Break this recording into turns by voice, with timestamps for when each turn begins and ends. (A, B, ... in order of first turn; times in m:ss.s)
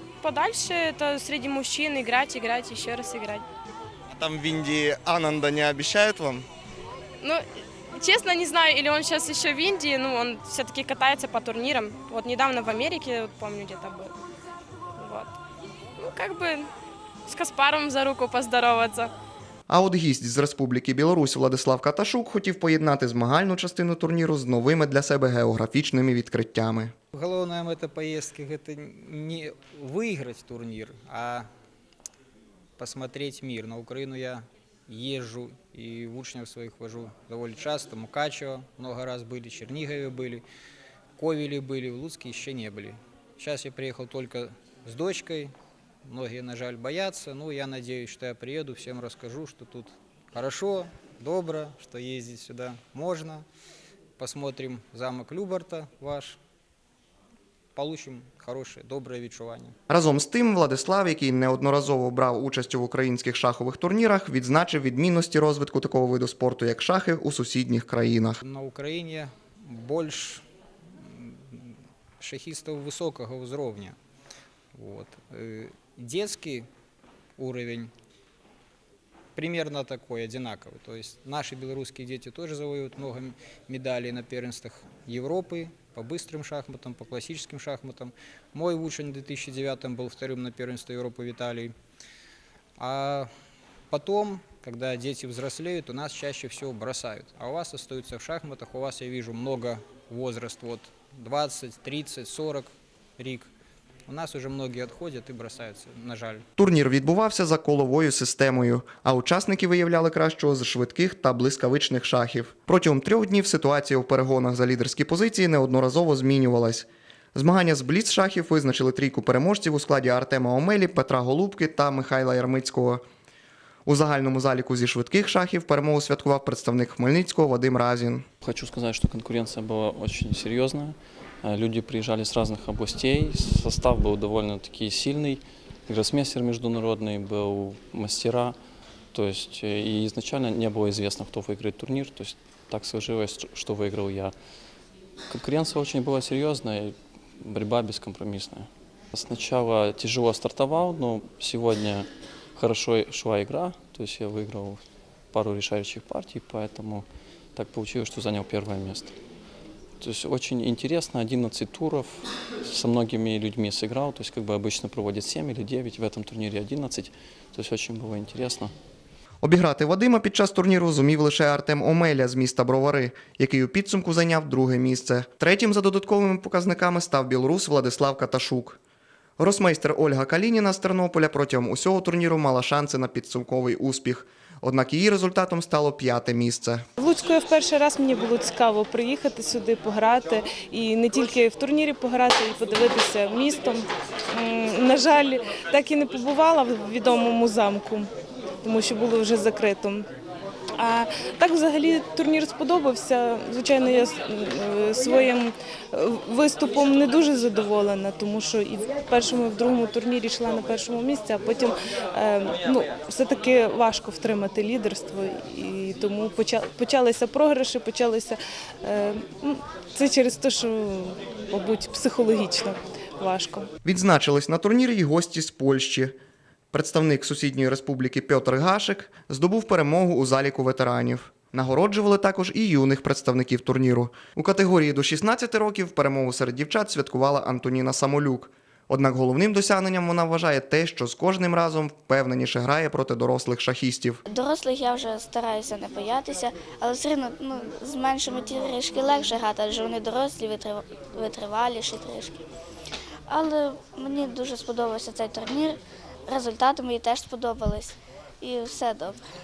0:00.2-0:03.5 A
0:04.1-0:06.5 B
0:07.2-0:14.1 A
0:15.0-0:15.4 A
0:16.0-0:16.7 A
0:17.3-0:19.1 A
0:19.7-0:26.9 C
0:27.1-0:31.5 D
0:32.8-0:40.4 D
0:41.2-0:45.5 D
0:46.0-0:53.5 D
0:54.2-0:56.4 D
0:57.8-0:59.8 D
0:59.9-1:08.4 C
1:08.4-1:14.0 D
1:14.8-1:16.7 D
1:17.4-1:17.9 D
1:19.4-1:31.8 D
1:32.8-1:33.3 D
1:33.9-1:43.5 D
1:44.1-1:46.5 D
1:46.6-2:03.0 C
2:03.9-2:08.3 C
2:08.4-2:18.6 E
2:19.1-2:24.3 E
2:25.3-2:34.8 E
2:35.3-2:39.1 E
2:40.0-2:48.7 E
2:49.4-2:58.8 C
2:59.4-3:06.8 C
3:07.0-3:18.1 F
3:18.6-3:20.1 F
3:20.8-3:43.7 F
3:43.8-3:46.1 C
3:46.7-4:04.2 C
4:04.3-4:12.4 G
4:13.3-4:19.2 G